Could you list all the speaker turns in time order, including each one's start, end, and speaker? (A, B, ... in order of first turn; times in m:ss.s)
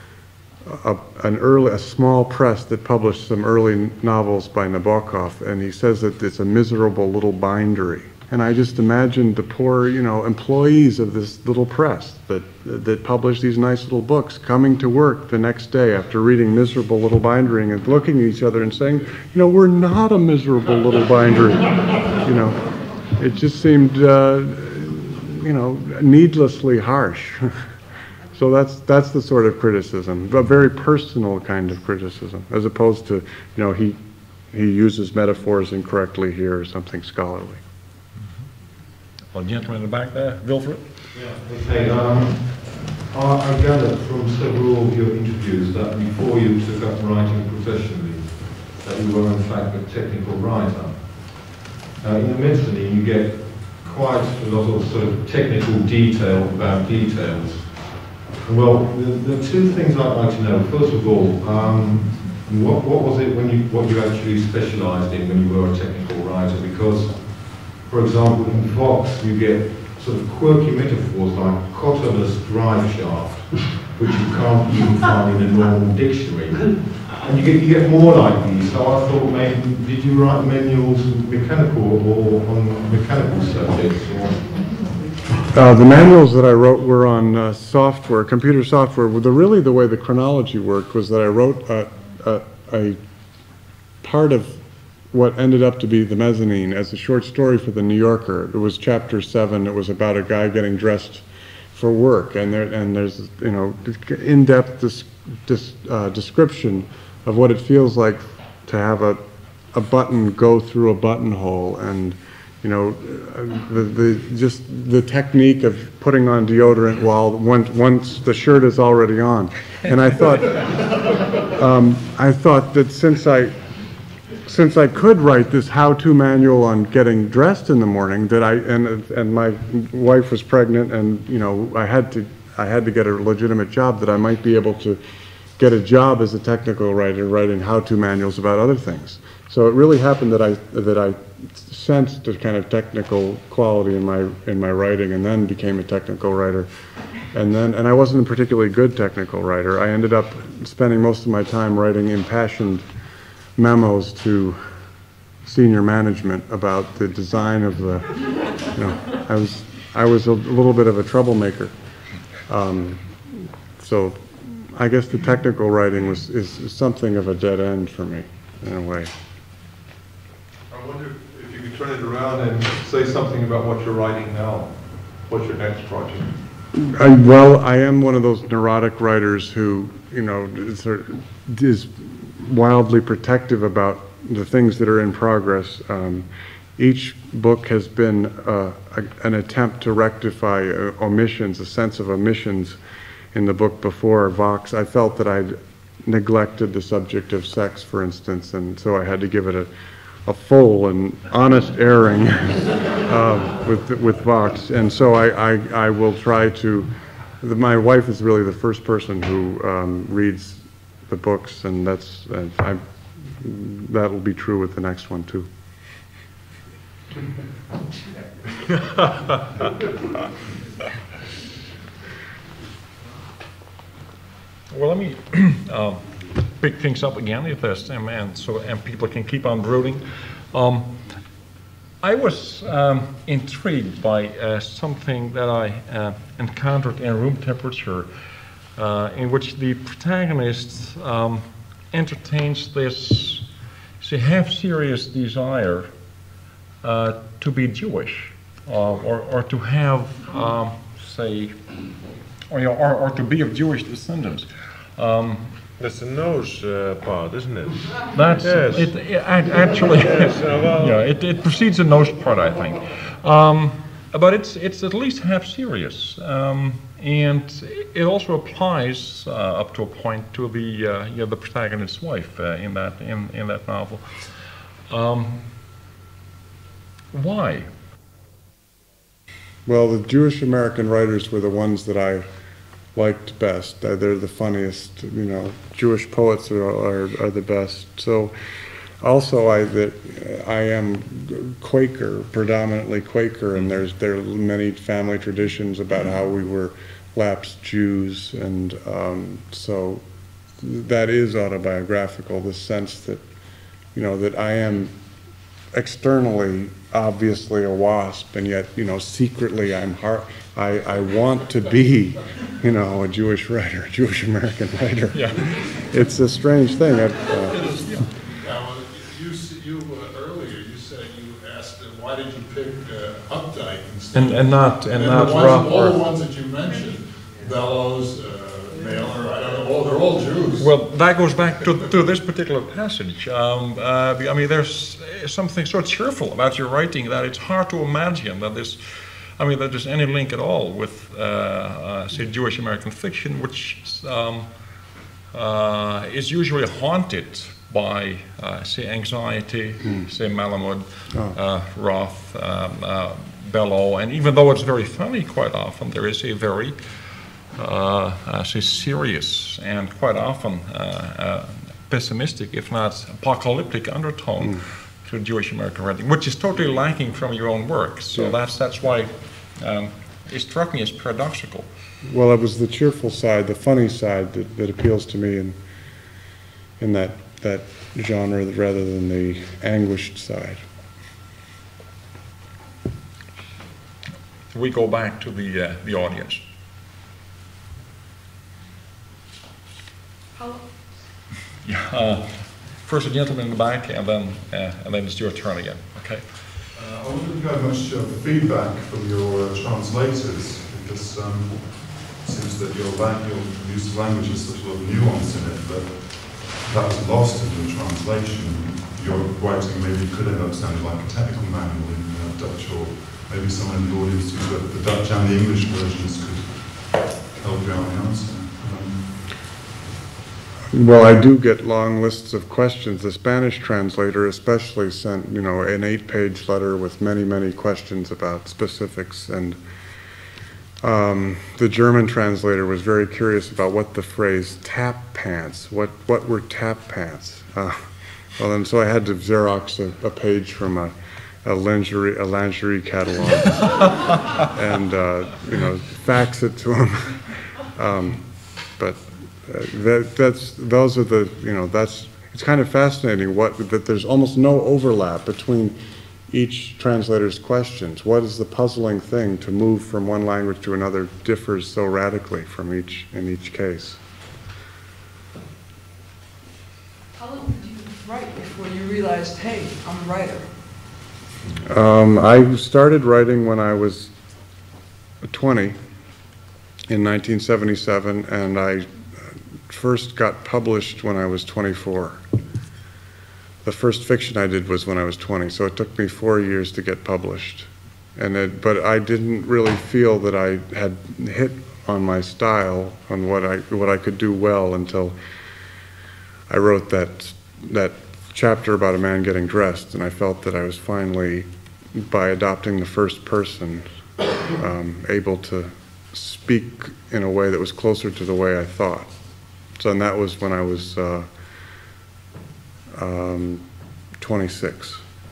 0:00.6-0:27.7 A
0:28.3-0:37.6 A
0:39.3-0:41.0 B
0:41.1-1:24.5 C
1:25.5-1:33.0 A
1:34.0-1:49.2 A
1:49.7-2:03.6 A
2:04.4-2:15.0 A
2:15.6-2:26.7 A
2:27.3-2:32.9 A
2:33.6-2:34.8 A
2:35.4-2:41.8 A
2:42.4-2:49.1 A
2:50.7-2:54.7 C
2:55.3-2:56.3 C
2:56.7-3:12.8 A
3:13.3-3:19.7 A
3:20.2-3:35.5 A
3:44.7-3:51.1 B
3:52.0-4:06.1 B
4:06.8-4:15.6 B
4:15.8-4:19.0 D
4:18.1-4:35.5 B
4:19.7-4:21.0 D
4:37.1-4:37.7 B
4:39.6-4:42.2 A
4:42.9-4:48.3 A
4:49.0-5:00.0 A
5:00.6-5:03.2 A
5:03.9-5:05.0 A
5:05.7-5:17.6 A
5:15.1-5:15.6 B
5:17.5-5:30.7 E
5:17.8-5:18.1 B
5:24.1-5:26.0 B
5:30.6-6:11.7 B
5:49.8-5:50.1 A
5:51.1-5:51.4 A
6:04.4-6:04.6 A
6:12.0-6:15.6 A
6:16.8-6:20.6 A
6:24.5-6:26.4 B
6:30.4-6:30.6 F
6:31.6-6:36.5 B
6:36.7-6:59.2 G
7:00.7-7:09.6 A
7:10.8-7:35.8 A
7:36.3-7:44.0 A
7:47.2-7:50.9 F
7:51.6-7:54.1 A
7:55.2-7:55.8 A
7:56.9-8:02.2 A
8:03.6-8:15.2 A
8:16.5-8:23.9 A
8:24.5-8:29.2 A
8:29.7-8:31.3 A
8:32.9-8:33.6 A
8:34.2-8:35.0 A